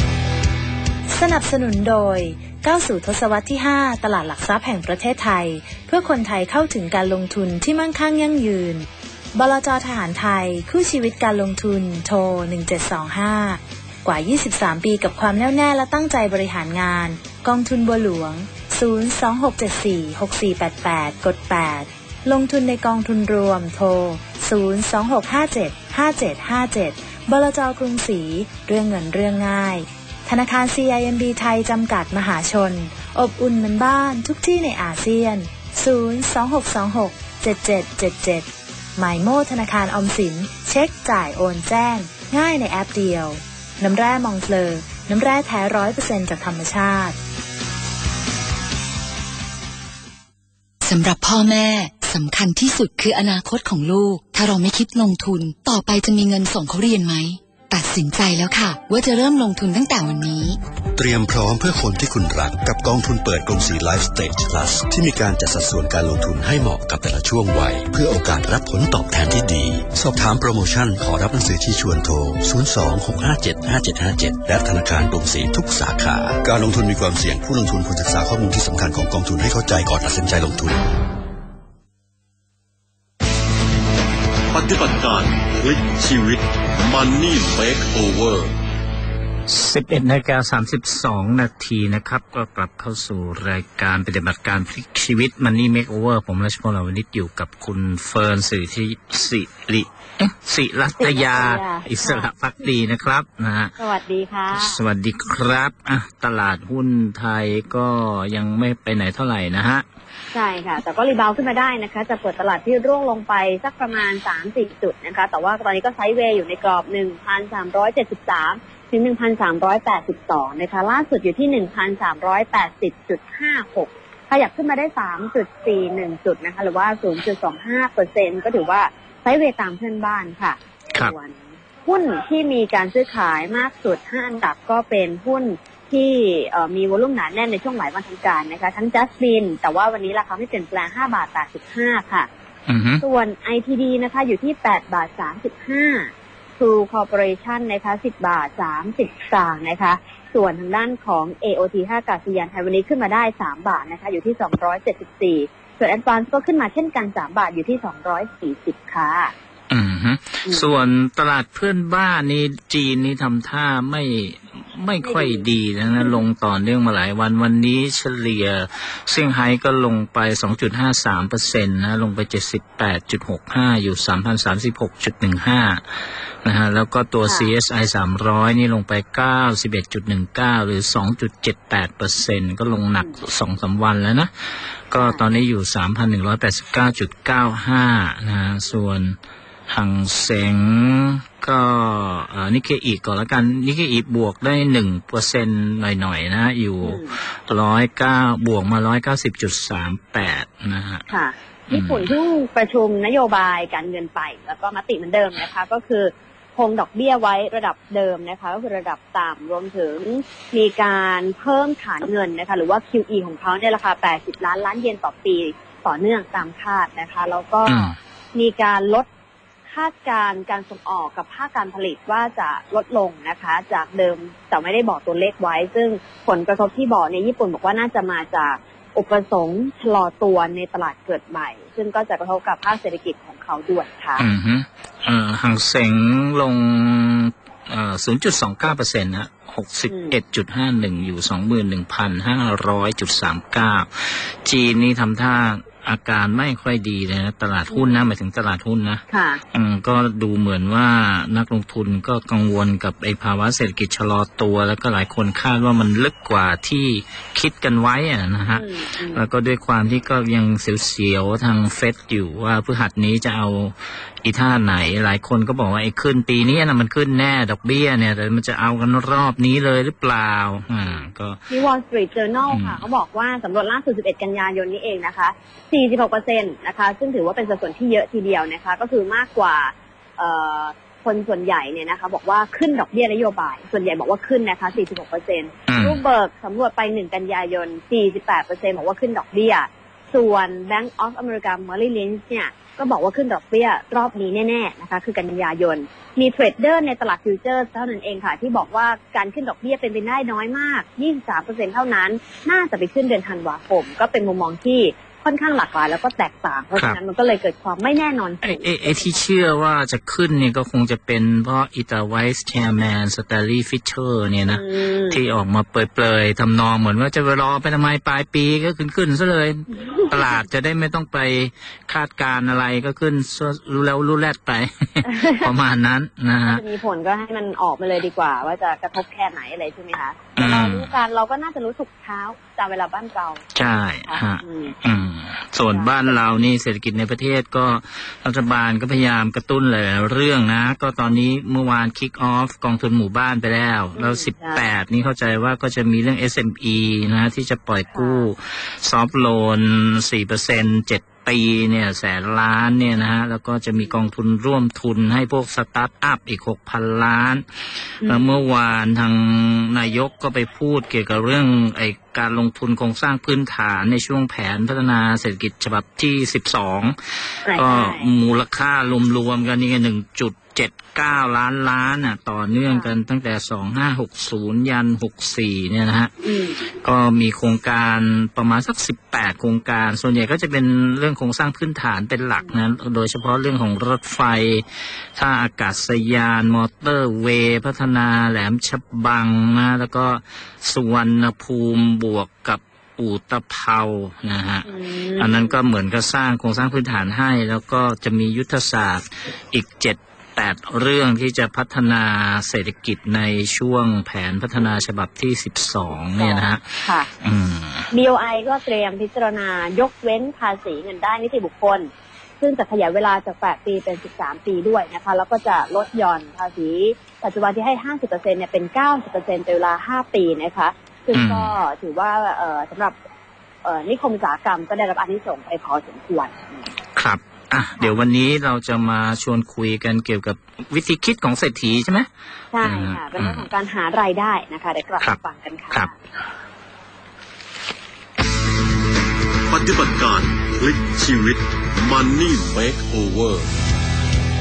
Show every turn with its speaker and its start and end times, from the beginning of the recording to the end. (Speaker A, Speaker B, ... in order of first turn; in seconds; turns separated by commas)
Speaker A: 1.1-47.2, Speaker B: 50.9-60.6, Speaker C: 61.0-80.8, Speaker D: 84.5-88.5, Speaker E: 89.5-103.8, Speaker F: 101.0-102.3, Speaker F: 103.8-104.8, Speaker E: 104.5-109.8, Speaker F: 110.3-142.3, Speaker E: 142.7-143.0, Speaker F: 143.0-159.3, Speaker E: 159.7-175.8, Speaker F: 165.0-166.2, Speaker E: 176.4-184.3, Speaker F: 177.3-177.5, Speaker E: 184.9-189.2, Speaker F: 185.0-185.3, Speaker E: 189.7-201.1, Speaker F: 196.8-197.2, Speaker F: 201.1-219.1, Speaker E: 201.7-202.1, Speaker E: 217.7-218.0, Speaker F: 219.7-234.2, Speaker E: 234.2-271.4, Speaker F: 239.9-240.2, Speaker F: 247.7-248.0, Speaker F: 249.1-249.4, Speaker F: 258.6-259.2, Speaker F: 270.8-309.0, Speaker E: 272.5-272.8, Speaker E: 285.7-286.0, Speaker E: 308.4-326.6, Speaker F: 314.5-315.2, Speaker F: 325.1-325.5, Speaker F: 326.5-333.4, Speaker E: 330.4-330.9, Speaker E: 333.6-357.4, Speaker F: 334.1-334.8, Speaker F: 335.7-336.2, Speaker F: 344.0-344.6, Speaker F: 348.0-348.3, Speaker E: 358.0-376.1, Speaker F: 358.0-358.3, Speaker F: 367.4-368.1, Speaker F: 376.2-376.6, Speaker E: 376.8-407.9, Speaker F: 394.7-395.6, Speaker F: 406.2-407.1, Speaker F: 407.9-423.0, Speaker E: 421.1-421.5, Speaker F: 423.6-426.6, Speaker E: 427.0-432.1, Speaker F: 432.5-435.9, Speaker E: 432.6-433.5, Speaker D: 439.5-443.5